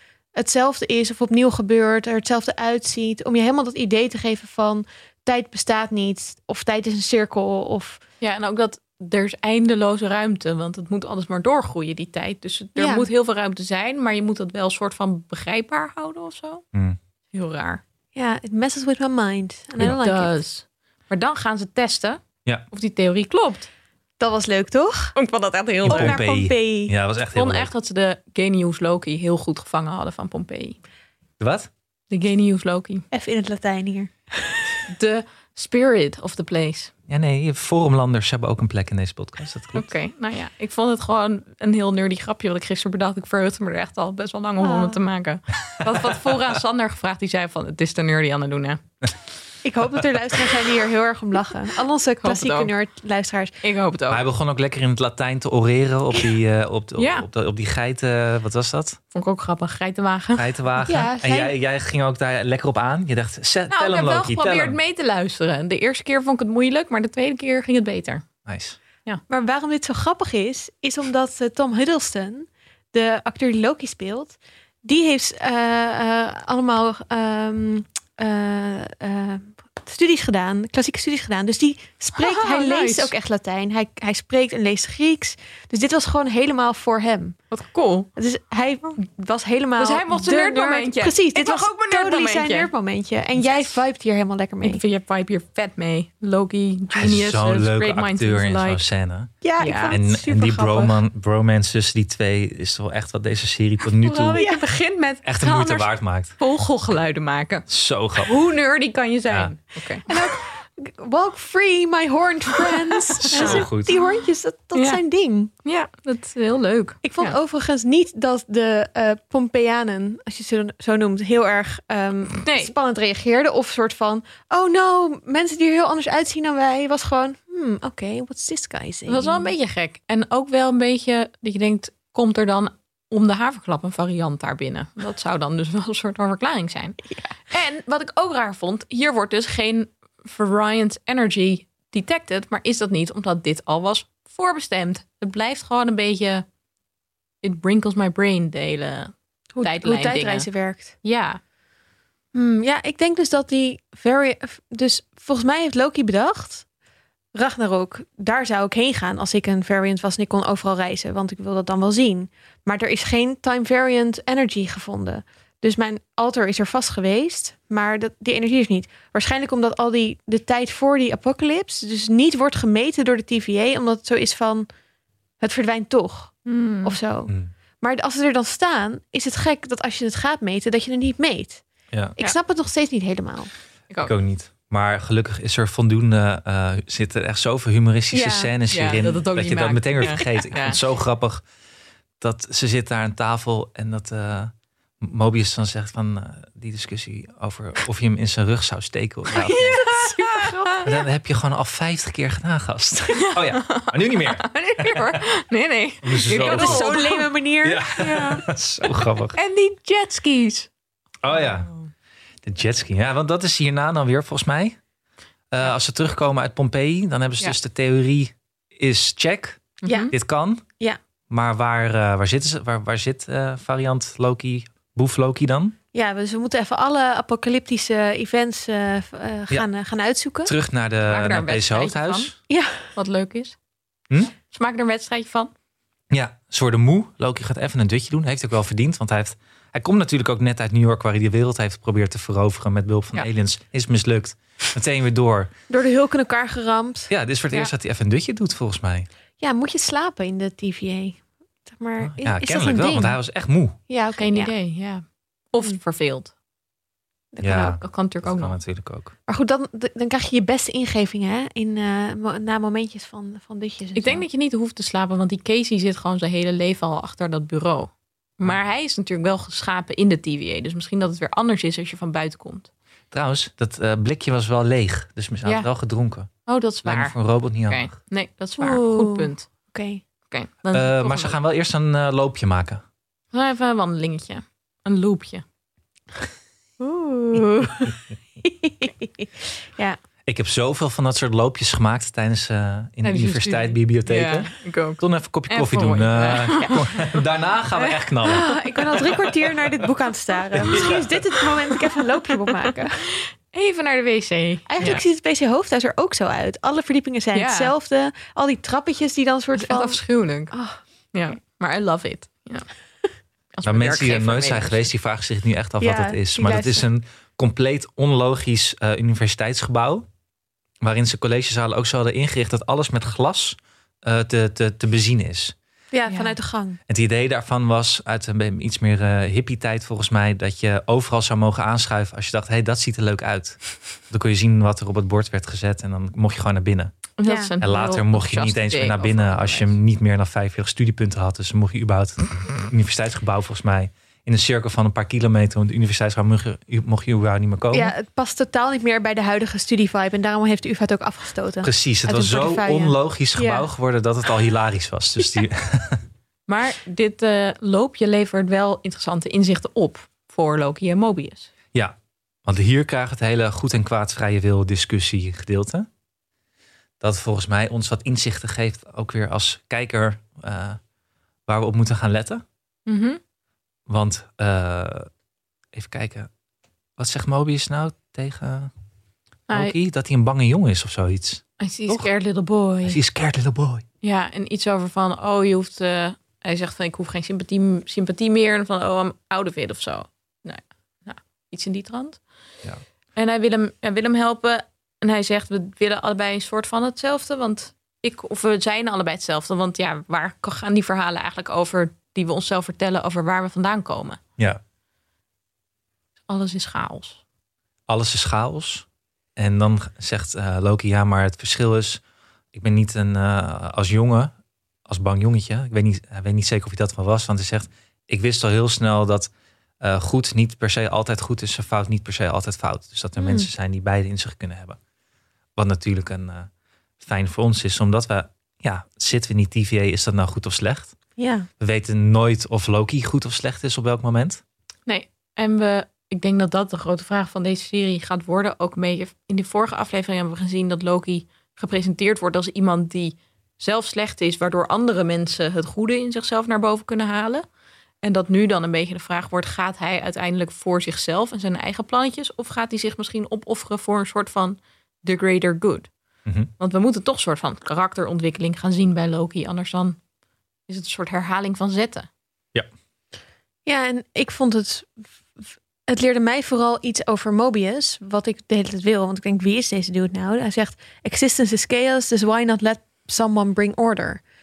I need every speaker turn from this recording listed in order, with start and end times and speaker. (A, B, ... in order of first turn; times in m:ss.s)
0:00.3-0:08.0 A
0:08.2-0:16.6 B
0:12.8-0:13.1 A
0:16.7-0:17.0 C
0:17.3-0:17.8 B
0:18.1-0:20.4 A
0:19.8-0:23.7 B
0:24.2-0:25.1 A
0:25.1-0:26.2 B
0:25.8-0:27.7 C
0:25.8-0:26.9 A
0:27.3-0:30.8 B
0:31.4-0:31.7 C
0:32.1-0:33.0 B
0:33.1-0:34.8 A
0:34.9-0:36.9 B
0:37.1-0:39.9 C
0:39.7-0:48.8 B
0:44.6-0:45.0 A
0:45.8-0:46.4 C
0:49.6-0:53.6 A
0:52.2-0:52.7 B
0:53.6-0:54.2 B
0:54.1-0:59.0 C
0:57.0-0:57.3 B
0:59.1-1:00.5 B
1:00.4-1:04.8 C
1:00.8-1:01.6 A
1:03.7-1:08.2 B
1:08.4-1:08.8 C
1:09.3-1:27.4 A
1:22.1-1:23.1 B
1:27.5-1:28.1 B
1:28.2-1:34.8 A
1:29.8-1:32.7 B
1:33.4-1:33.7 B
1:34.6-1:38.8 B
1:36.9-1:39.3 C
1:39.4-1:41.0 A
1:39.6-1:40.0 B
1:39.9-1:44.4 C
1:44.0-1:50.1 B
1:44.3-1:44.7 A
1:45.2-1:46.4 C
1:47.7-1:48.3 C
1:50.1-1:55.5 A
1:52.6-1:54.1 B
1:53.3-1:53.9 C
1:54.7-1:55.0 B
1:55.6-1:57.4 B
1:57.0-2:09.5 A
2:02.4-2:02.7 B
2:09.1-2:26.4 B
2:27.4-2:30.5 B
2:29.5-2:30.9 A
2:31.0-2:31.4 B
2:32.3-2:36.6 A
2:37.3-2:54.7 A
2:55.4-3:01.6 A
2:56.4-2:57.0 B
3:02.2-3:03.5 A
3:04.0-3:11.4 C
3:08.1-3:10.8 B
3:12.2-3:19.8 C
3:19.3-3:20.9 B
3:19.4-3:20.9 A
3:20.8-3:25.1 C
3:23.1-3:27.3 B
3:26.0-3:27.0 C
3:26.4-3:28.3 A
3:27.6-3:29.4 C
3:27.9-3:28.5 B
3:29.3-3:30.7 B
3:31.2-3:31.7 C
3:31.3-3:31.9 B
3:32.4-3:34.8 C
3:35.5-3:40.6 C
3:39.8-3:40.1 B
3:39.8-3:40.1 A
3:41.3-3:45.8 C
3:45.9-3:50.5 A
3:50.4-3:52.3 C
3:51.0-3:52.3 B
3:52.5-3:52.8 A
3:52.9-3:53.6 B
3:54.5-3:55.5 B
3:56.1-4:05.5 C
4:05.7-4:07.1 A
4:07.1-4:09.1 C
4:09.4-4:13.2 A
4:12.0-4:13.8 C
4:13.9-4:14.5 A
4:14.2-4:16.3 B
4:17.3-4:17.8 A
4:17.4-4:19.1 C
4:17.8-4:18.6 B
4:19.3-4:24.2 A
4:24.0-4:32.7 B
4:33.1-4:36.3 C
4:36.4-4:37.1 B
4:36.8-4:37.9 C
4:37.7-4:39.5 B
4:38.6-4:40.0 A
4:40.3-4:41.4 B
4:40.7-4:42.8 C
4:43.3-4:45.4 B
4:46.8-4:50.0 A
4:50.2-4:59.2 C
4:53.0-4:57.2 B
4:57.7-4:58.6 B
4:58.2-5:03.0 A
5:00.5-5:01.1 C
5:01.7-5:05.0 B
5:04.7-5:10.0 A
5:07.3-5:07.7 B
5:09.5-5:10.5 B
5:10.5-5:10.8 A
5:11.1-5:12.7 B
5:13.5-5:14.9 B
5:13.6-5:20.0 C
5:15.8-5:16.8 A
5:20.8-5:25.5 C
5:25.9-5:26.8 A
5:26.0-5:26.4 B
5:26.9-5:36.9 C
5:37.2-5:39.8 B
5:37.2-5:37.5 A
5:37.6-5:47.9 C
5:47.7-5:53.7 A
5:51.6-5:56.0 C
5:56.5-6:01.5 B
6:01.7-6:05.9 C
6:07.0-6:10.8 C
6:11.5-6:12.4 C
6:12.8-6:13.2 B
6:13.9-6:15.1 C
6:15.7-6:16.3 C
6:17.0-6:18.7 C
6:19.5-6:19.7 B
6:19.5-6:22.1 C
6:21.6-6:23.0 B
6:22.8-6:23.8 C
6:24.0-6:32.2 B
6:33.2-6:44.2 B
6:46.3-6:47.2 B
6:47.9-6:52.0 C
6:52.5-6:54.3 C
6:54.9-6:59.3 C
6:59.8-7:04.8 C
7:03.2-7:03.5 A
7:05.6-7:06.5 C
7:07.0-7:10.9 C
7:11.2-7:11.5 A
7:11.6-7:14.4 C
7:14.9-7:27.4 B
7:28.0-7:35.9 B
7:36.6-7:40.0 B
7:40.7-7:42.1 B
7:43.6-7:54.2 A